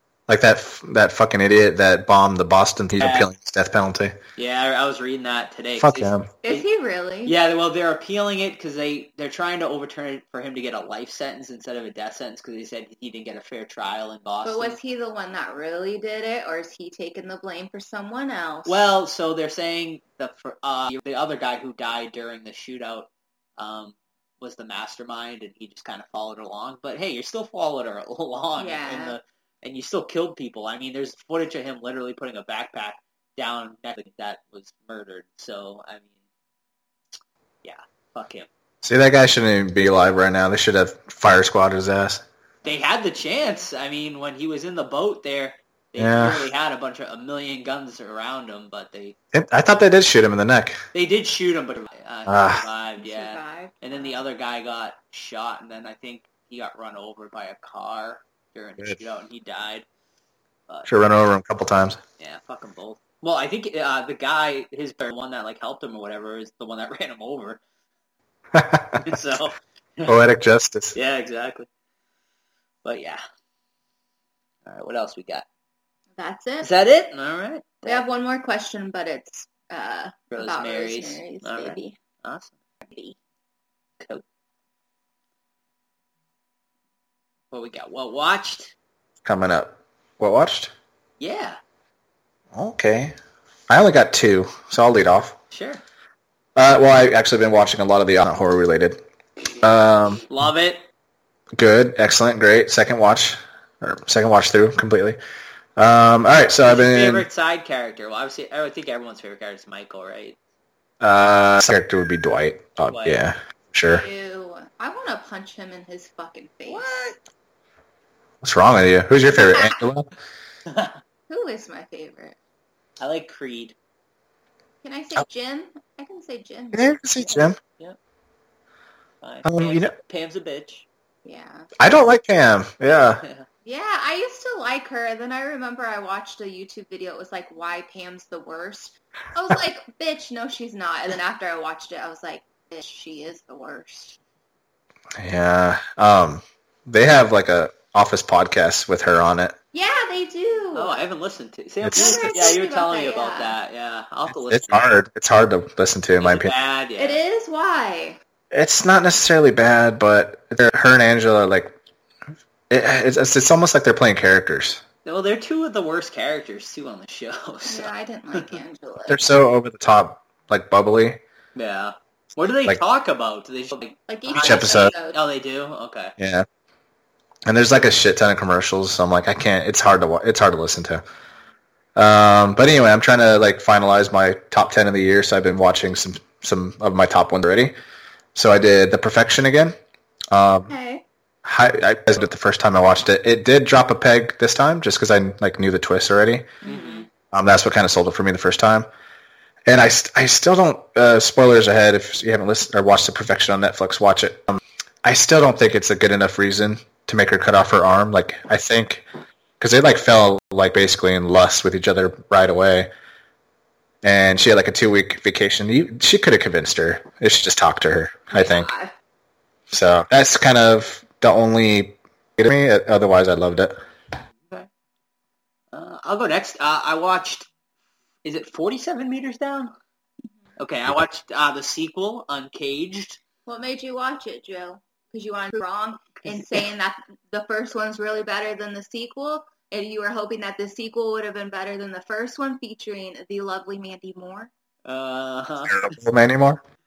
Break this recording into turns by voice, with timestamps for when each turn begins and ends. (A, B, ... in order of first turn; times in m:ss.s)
0:00.3-0:04.2 A
0:03.0-0:03.3 B
0:04.4-0:06.6 B
0:05.8-0:06.3 A
0:06.4-0:07.3 C
0:07.2-0:14.8 B
0:14.4-0:18.8 C
0:18.6-0:36.1 B
0:28.6-0:29.2 C
0:37.6-0:38.5 B
0:38.8-0:42.2 A
0:42.6-0:49.2 B
0:46.0-0:46.4 A
0:49.3-0:50.8 A
0:50.9-0:59.8 B
0:52.3-0:52.6 A
0:53.0-0:54.2 C
1:00.9-1:02.0 A
1:02.2-1:07.6 B
1:08.5-1:09.2 A
1:09.0-1:10.2 B
1:10.0-1:10.9 A
1:10.9-1:11.7 B
1:12.8-1:13.2 B
1:14.6-1:15.4 B
1:16.2-1:16.7 C
1:16.6-1:18.0 B
1:17.8-1:22.0 C
1:20.3-1:22.5 B
1:22.8-1:23.2 C
1:27.5-1:28.7 B
1:29.2-1:30.7 A
1:31.2-1:31.6 B
1:32.5-1:33.1 A
1:33.7-1:35.4 A
1:35.5-1:35.8 B
1:36.5-1:39.0 A
1:39.6-1:40.2 A
1:40.3-1:40.8 B
1:41.5-1:45.2 A
1:45.8-1:47.2 A
1:46.6-1:50.4 B
1:51.0-1:54.0 A
1:52.9-1:53.2 B
1:53.9-1:56.9 C
1:56.6-1:57.2 B
1:58.4-2:00.1 A
1:59.4-1:59.8 C
2:00.7-2:01.0 B
2:01.3-2:02.4 C
2:03.0-2:03.7 B
2:04.8-2:07.4 C
2:06.7-2:07.6 A
2:07.7-2:08.0 B
2:09.2-2:10.8 B
2:09.4-2:09.9 A
2:11.2-2:11.7 C
2:11.8-2:13.2 A
2:13.6-2:24.2 C
2:25.2-2:29.5 A
2:29.7-2:31.0 C
2:30.7-2:34.9 B
2:31.8-2:32.5 A
2:31.9-2:33.6 C
2:34.3-2:36.5 A
2:36.2-2:37.2 B
2:37.0-2:38.2 C
2:38.5-2:41.7 A
2:42.7-2:44.8 A
2:45.0-2:48.6 B
2:47.7-2:49.2 C
2:49.1-2:51.2 A
2:51.5-2:56.1 B
2:54.1-2:55.2 C
2:54.3-2:54.9 A
2:56.2-2:56.4 A
2:57.4-3:01.0 A
3:02.0-3:07.7 A
3:08.3-3:09.8 A
3:10.3-3:10.7 A
3:10.7-3:11.0 C
3:11.4-3:16.5 A
3:16.6-3:17.1 C
3:16.6-3:17.1 B
3:17.3-3:18.9 A
3:19.6-3:29.0 A
3:29.6-3:32.9 A
3:34.0-3:38.7 A
3:38.3-3:38.9 C
3:39.7-3:43.8 A
3:45.7-3:47.5 B
3:48.2-3:49.7 B
3:50.6-3:53.2 B
3:53.4-4:04.5 C
3:56.2-3:56.6 B
4:04.8-4:05.9 B
4:05.6-4:06.6 A